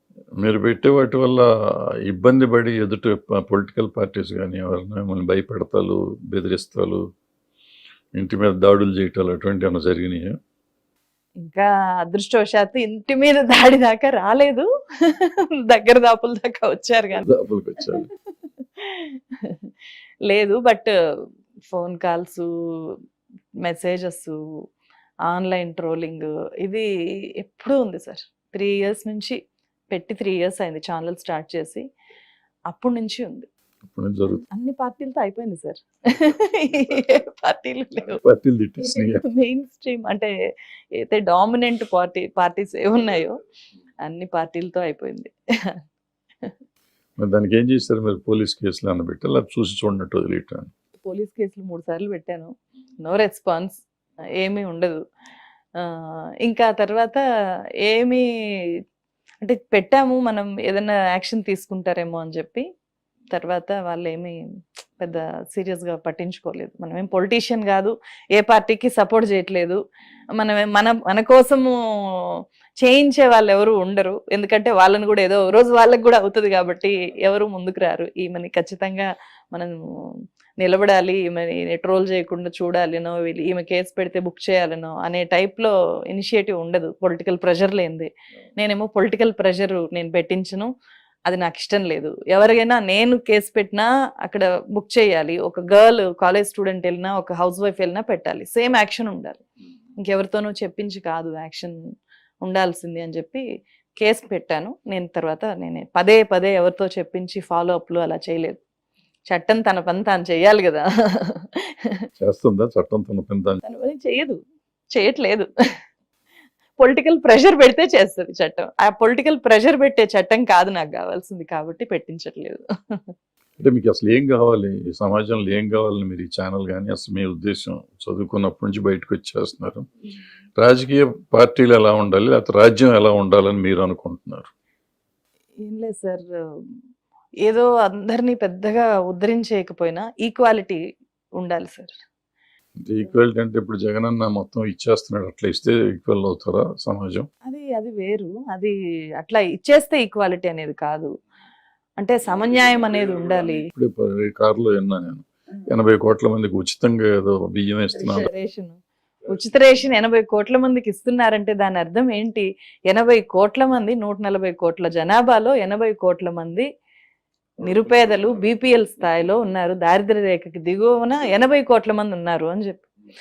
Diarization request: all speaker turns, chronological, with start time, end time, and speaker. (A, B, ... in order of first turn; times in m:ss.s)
0:00.4-0:01.5 A
0:02.0-0:07.0 A
0:08.2-0:10.4 A
0:11.4-0:17.3 B
0:17.2-0:18.1 A
0:17.8-0:19.7 B
0:20.3-0:20.9 B
0:21.6-0:23.0 B
0:23.6-0:24.4 B
0:25.3-0:29.4 B
0:29.9-0:31.8 B
0:32.7-0:33.5 B
0:33.8-0:34.4 A
0:34.4-0:38.2 B
0:38.1-0:39.2 A
0:38.8-0:40.3 B
0:41.0-0:43.4 B
0:44.0-0:45.8 B
0:47.2-0:50.7 A
0:51.0-0:53.8 B
0:54.4-0:55.0 B
0:55.8-0:57.2 B
0:57.8-0:58.3 B
0:59.4-1:02.6 B
1:03.3-1:09.8 B
1:10.4-1:30.7 B
1:31.3-1:39.4 B
1:40.0-1:41.8 B
1:42.4-1:43.4 B
1:44.0-1:48.6 B
1:49.3-1:52.0 B
1:52.2-1:53.6 A
1:53.6-1:54.4 B
1:54.9-1:55.5 B
1:56.8-2:03.1 B
2:03.6-2:09.9 A
2:10.6-2:14.5 A
2:15.6-2:16.8 B
2:17.4-2:20.8 B
2:21.4-2:21.9 B
2:22.8-2:27.3 A
2:27.4-2:31.1 B
2:32.0-2:33.7 B
2:33.7-2:38.3 A
2:38.0-2:46.7 B
2:47.6-2:52.8 B